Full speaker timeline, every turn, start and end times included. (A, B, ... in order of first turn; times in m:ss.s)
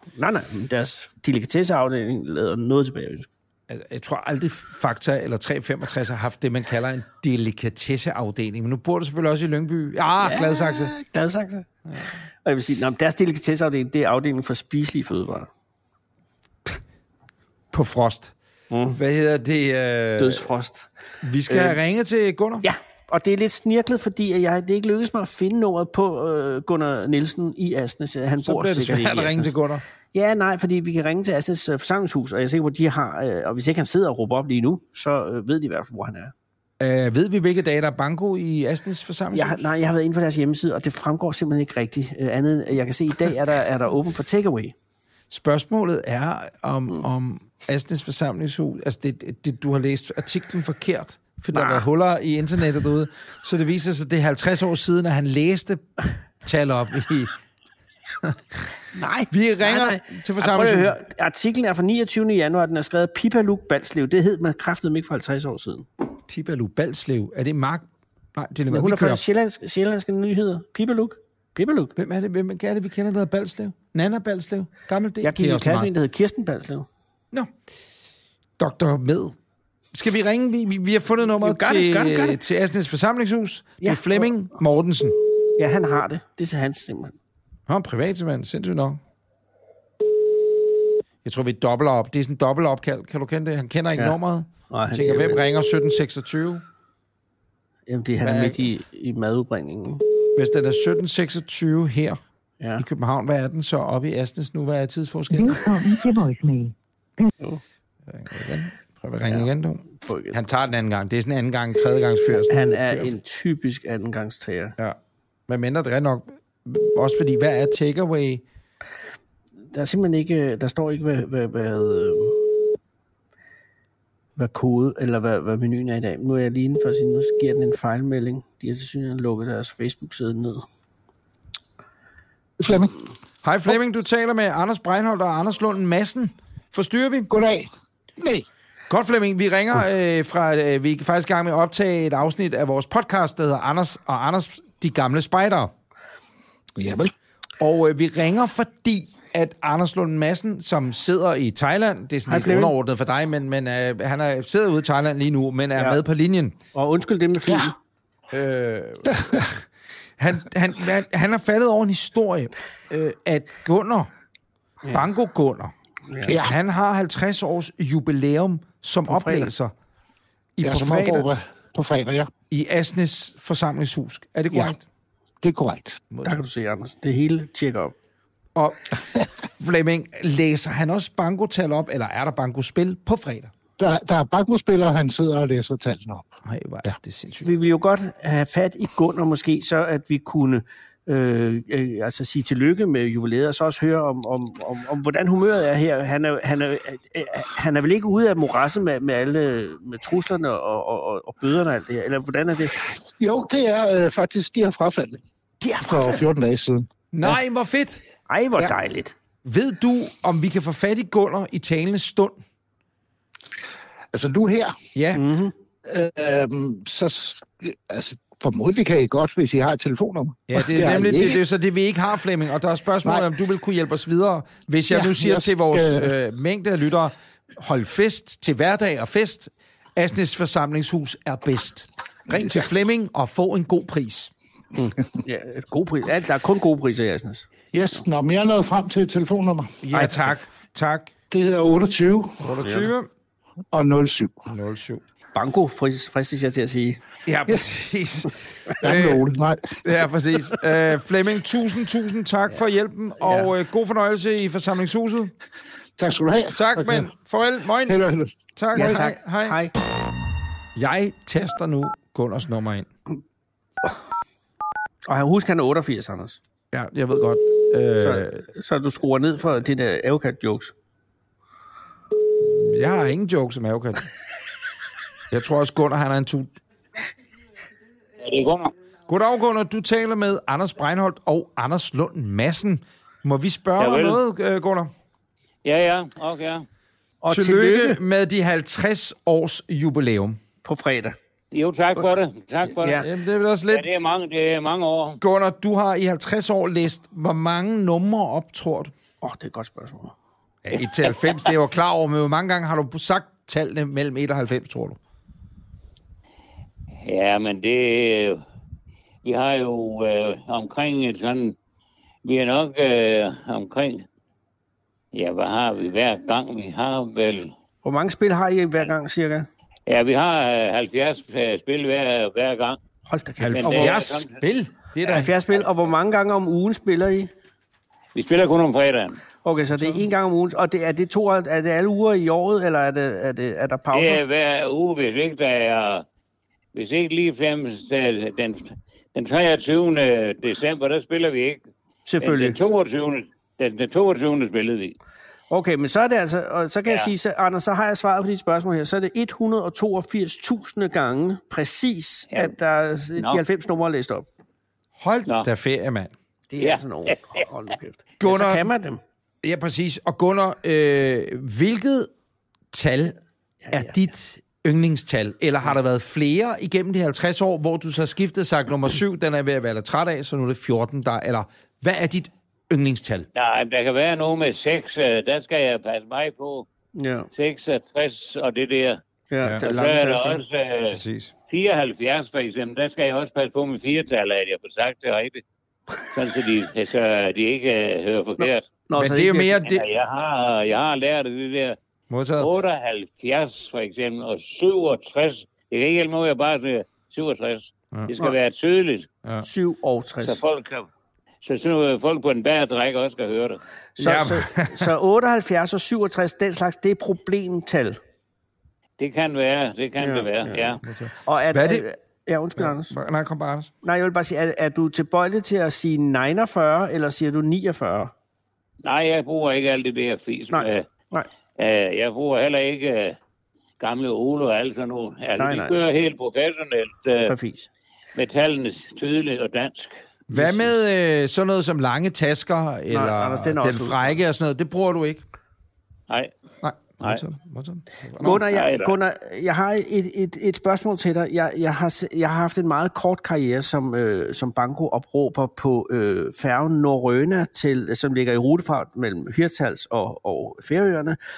0:00.1-0:03.3 A
0:03.7-0:10.9 B
0:10.2-0:11.7 A
0:11.9-0:12.2 B
0:12.4-0:15.5 A
0:17.7-0:18.3 B
0:18.7-0:19.0 A
0:18.9-0:20.5 B
0:20.2-0:20.9 A
0:21.2-0:22.6 B
0:21.5-0:21.8 A
0:22.6-0:29.5 A
0:28.4-0:29.8 B
0:30.1-0:36.3 A
0:36.8-0:39.7 B
0:39.3-0:44.7 A
0:45.3-0:55.9 B
0:51.5-0:51.8 A
0:56.4-0:57.3 B
0:58.2-0:58.6 B
0:58.9-1:05.9 A
0:59.3-1:00.9 B
1:06.3-1:09.2 B
1:08.7-1:11.9 A
1:12.0-1:15.9 B
1:15.2-1:16.9 A
1:18.6-1:19.4 B
1:19.9-1:25.1 B
1:21.4-1:22.4 A
1:23.8-1:24.3 A
1:25.6-1:27.2 A
1:27.7-1:29.0 B
1:31.2-1:36.6 B
1:34.7-1:35.4 A
1:37.9-1:40.0 A
1:38.2-1:38.7 B
1:40.3-1:42.2 B
1:42.6-1:42.8 A
1:42.8-1:45.8 B
1:45.3-1:47.3 C
1:48.1-1:53.1 B
1:49.3-1:50.4 A
1:52.5-1:54.8 A
1:54.8-1:58.4 B
1:59.7-2:02.5 A
2:04.4-2:10.6 A
2:12.6-2:13.0 D
2:13.4-2:17.3 B
2:17.3-2:18.5 D
2:18.9-2:25.7 B
2:26.8-2:27.1 D
2:27.6-2:36.6 B
2:32.3-2:32.7 A
2:35.8-2:36.0 A
2:36.7-2:37.8 A
2:38.3-2:39.6 B
2:40.2-2:44.1 B
2:44.9-2:45.7 B
2:46.1-2:46.4 A
2:46.2-2:46.5 D
2:46.3-2:49.7 B
2:49.1-2:49.5 A
2:50.6-2:51.3 B
2:50.6-2:52.3 D
2:52.5-2:54.8 B
2:55.4-2:56.0 D
2:56.1-2:56.4 B
2:56.2-2:57.9 A
2:58.5-3:03.5 B
3:03.8-3:06.2 D
3:06.4-3:07.5 B
3:07.4-3:22.7 A
3:22.9-3:25.2 D
3:25.6-3:26.2 A
3:25.8-3:27.4 D
3:27.1-3:28.0 B
3:28.3-3:29.1 A
3:29.4-3:32.4 B
3:34.1-3:34.7 D
3:34.9-3:35.3 B
3:35.1-3:35.5 A
3:35.8-3:41.4 D
3:40.5-3:54.3 B
3:44.9-3:46.1 D
3:54.7-3:58.0 A
3:57.7-3:59.8 D
3:59.8-4:01.1 B
3:59.9-4:00.3 A
4:01.3-4:02.6 D
4:02.4-4:03.1 B
4:02.6-4:02.9 A
4:03.7-4:04.5 D
4:04.5-4:05.0 B
4:05.3-4:07.0 A
4:07.2-4:09.2 B
4:08.8-4:09.8 D
4:09.8-4:15.3 B
4:13.2-4:13.5 A
4:16.0-4:17.1 D
4:16.5-4:18.0 B
4:17.9-4:19.0 D
4:18.5-4:19.6 B
4:18.7-4:19.7 A
4:20.7-4:22.9 B
4:25.0-4:26.4 A
4:26.7-4:28.4 B
4:28.0-4:30.7 A
4:32.4-4:34.0 B
4:35.3-4:36.5 B
4:38.2-4:38.7 E
4:39.1-4:44.9 B
4:43.8-4:44.2 E
4:45.6-4:46.6 E
4:47.2-4:48.0 A
4:47.3-4:50.4 B
4:50.6-4:51.2 A
4:51.5-4:53.0 E
4:52.8-4:53.1 A
4:52.9-4:53.9 B
4:53.7-4:55.2 E
4:55.2-4:58.9 B
4:59.2-5:00.1 A
5:00.6-5:05.0 B
5:07.0-5:08.4 E
5:09.2-5:11.6 E
5:12.2-5:14.0 E
5:15.1-5:17.5 E
5:17.8-5:19.5 A
5:19.9-5:22.8 E
5:23.1-5:24.0 A
5:23.4-5:25.6 B
5:23.6-5:24.4 E
5:25.0-5:27.3 A
5:28.1-5:29.2 E
5:29.4-5:34.2 A
5:33.9-5:36.0 E
5:36.7-5:41.6 E
5:42.1-5:42.6 A
5:42.2-5:45.0 E
5:45.5-5:54.3 A
5:55.0-5:56.1 B
5:56.5-5:59.0 A
5:56.6-5:57.1 E
5:58.2-5:58.7 B
5:59.4-6:02.1 B
6:02.7-6:03.2 B
6:03.6-6:03.9 A
6:03.7-6:13.3 B
6:13.3-6:16.7 E
6:17.0-6:17.3 A
6:17.3-6:19.0 E
6:19.3-6:20.4 A
6:19.6-6:25.4 E
6:20.9-6:21.3 B
6:26.1-6:28.9 E
6:28.4-6:29.6 A
6:29.0-6:29.8 B
6:29.6-6:31.8 E
6:32.1-6:32.5 B
6:32.4-6:39.1 E
6:39.4-6:40.4 A
6:40.2-6:40.9 E
6:41.4-6:43.6 E
6:44.0-6:48.0 A
6:44.0-6:44.9 B
6:49.0-6:50.8 E
6:50.0-6:53.0 A
6:50.8-6:51.8 B
6:52.6-6:53.7 B
6:53.8-6:58.1 A
6:58.8-7:00.9 E
7:00.5-7:01.3 A
7:01.6-7:03.2 E
7:03.8-7:07.4 E
7:05.4-7:05.8 A
7:07.2-7:07.7 A
7:08.1-7:10.6 E
7:10.3-7:15.2 B
7:12.9-7:14.2 A
7:16.6-7:18.4 B
7:18.2-7:31.2 A
7:18.3-7:19.0 E